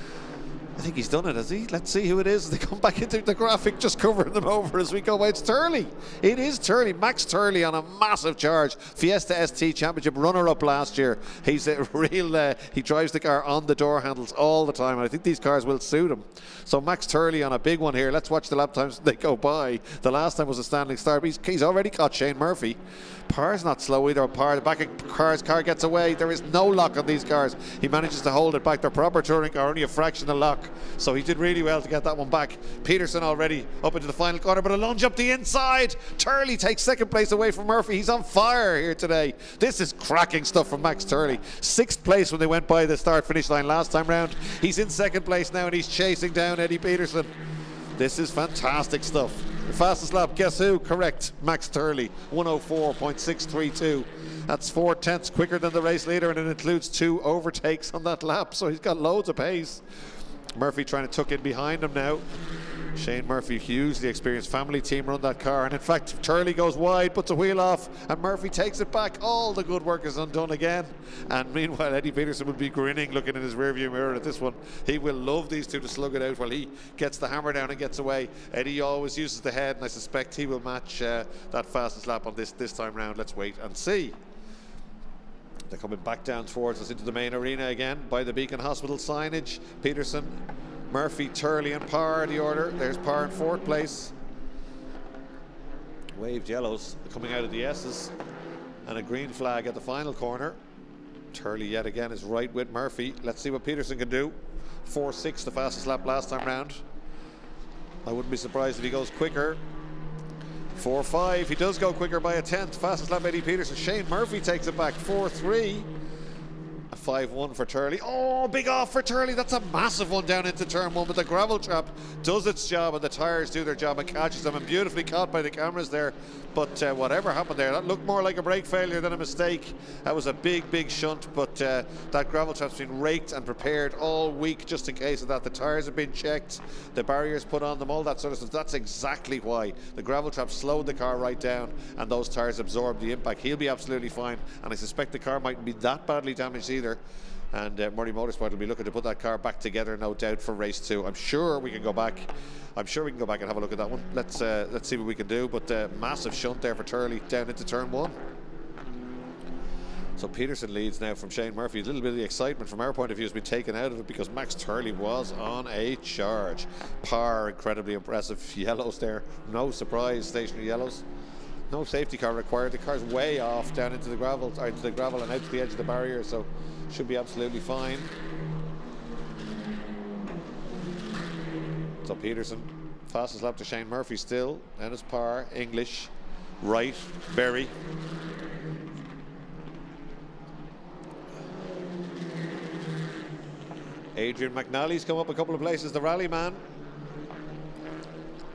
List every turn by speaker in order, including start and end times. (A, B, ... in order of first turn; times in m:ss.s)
0:00.8-0:47.3 A
0:48.0-0:59.8 A
1:00.5-1:02.2 A
1:02.9-1:24.2 A
1:25.7-1:34.1 A
1:36.1-1:38.1 A
1:38.8-1:40.6 A
1:41.3-1:46.8 A
1:48.0-1:49.6 A
1:50.7-1:55.9 A
1:56.9-2:27.0 A
2:27.5-2:38.2 A
2:40.2-2:51.0 A
2:51.7-2:58.1 A
3:02.0-3:07.7 A
3:14.2-3:16.6 A